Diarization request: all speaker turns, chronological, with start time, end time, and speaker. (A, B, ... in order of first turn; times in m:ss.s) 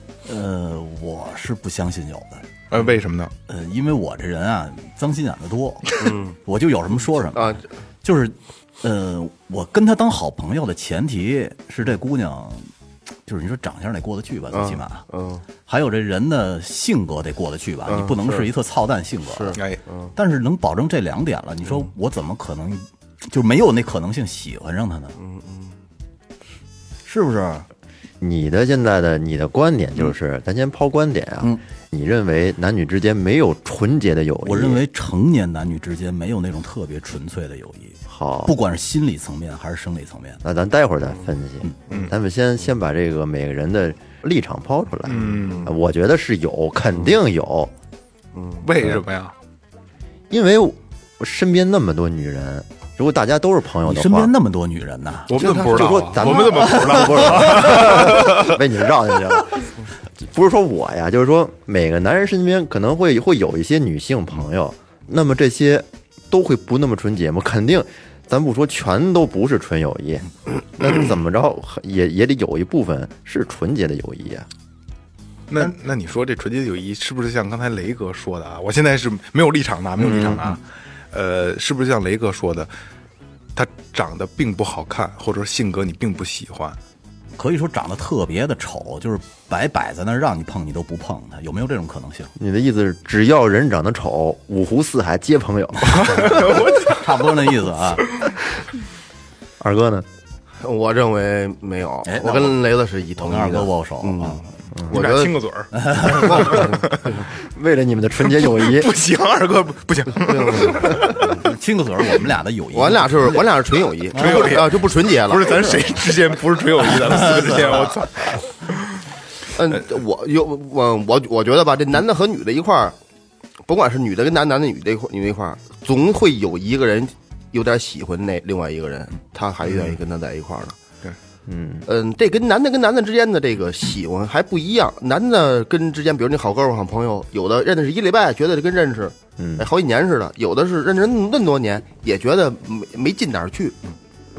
0:00.2-0:02.5 A
0:02.7-0:03.3 B
0:03.5-0:12.7 A
0:06.0-0:06.4 C
0:07.4-0:07.6 C
0:13.3-0:15.0 A
0:14.5-0:15.4 C
0:15.7-0:19.6 A
0:17.9-0:18.5 C
0:19.3-0:20.1 C
0:19.6-0:19.8 B
0:20.2-0:25.2 A
0:25.2-0:25.8 C
0:27.0-0:27.7 A
0:28.2-0:34.8 D
0:34.4-0:40.4 A
0:38.1-0:38.6 D
0:40.4-0:47.7 D
0:45.1-0:45.7 B
0:45.1-0:45.7 C
0:48.4-0:48.6 C
0:48.6-0:49.3 B
0:50.3-0:54.3 D
0:53.8-0:55.4 A
0:55.3-0:58.6 B
0:55.4-0:56.0 C
0:55.5-1:14.5 D
0:56.6-0:57.0 A
1:15.5-1:22.7 B
1:20.0-1:20.4 D
1:23.6-1:26.8 B
1:27.4-1:32.3 A
1:32.4-1:36.7 D
1:35.9-1:37.1 B
1:36.2-1:38.1 A
1:39.6-1:40.1 D
1:40.6-1:45.4 C
1:42.0-1:42.6 A
1:43.2-1:44.5 A
1:44.9-1:47.1 B
1:45.8-1:46.6 A
1:46.0-1:47.2 C
1:47.3-1:48.9 D
1:48.3-1:51.4 B
1:50.2-1:51.3 C
1:51.3-1:53.4 A
1:52.7-1:56.0 C
1:54.2-1:54.5 A
1:54.2-1:59.0 B
1:57.5-1:57.8 C
1:59.5-2:03.0 C
2:03.7-2:10.8 C
2:11.5-2:11.9 D
2:11.9-2:23.8 C
2:19.4-2:19.7 D